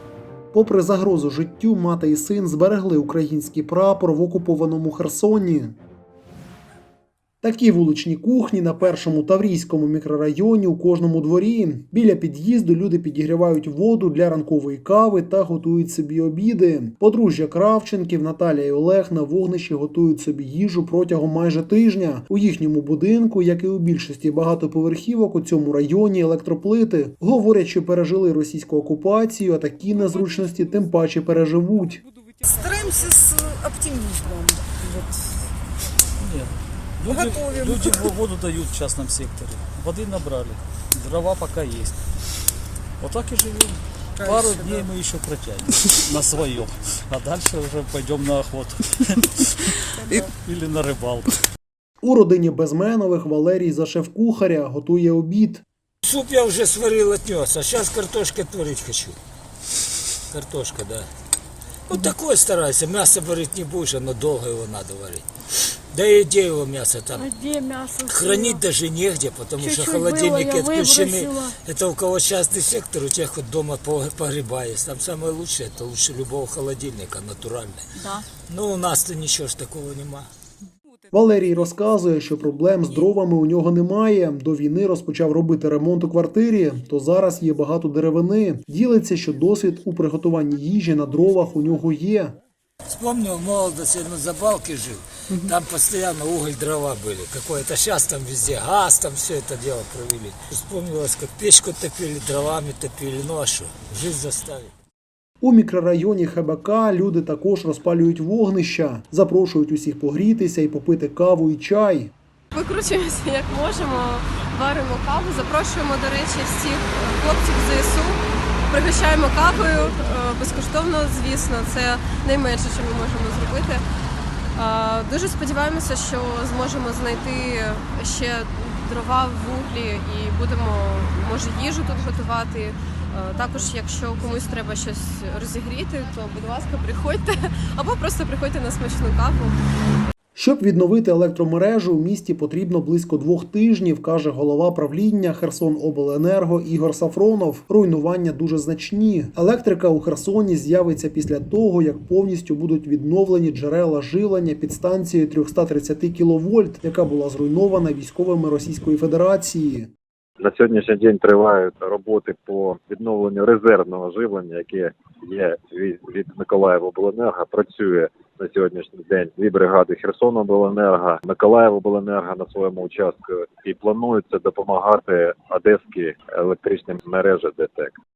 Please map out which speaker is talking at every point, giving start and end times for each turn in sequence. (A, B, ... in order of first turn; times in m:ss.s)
0:00.5-0:05.8 A
0:07.4-0:32.0 A
0:32.5-0:35.2 B
0:36.2-0:42.0 C
0:37.1-0:38.0 B
0:43.0-0:51.5 C
0:44.2-0:44.8 B
0:52.0-0:55.6 A
0:56.0-0:59.2 D
1:00.3-1:01.1 D
1:01.9-1:05.2 D
1:05.9-1:07.4 D
1:07.2-1:08.6 E
1:08.0-1:20.3 D
1:09.6-1:11.5 E
1:21.1-1:32.4 A
1:32.9-1:44.7 D
1:45.4-1:52.1 A
1:52.5-2:03.8 F
2:04.6-2:19.6 F
2:20.3-2:39.9 A
2:40.4-2:58.0 G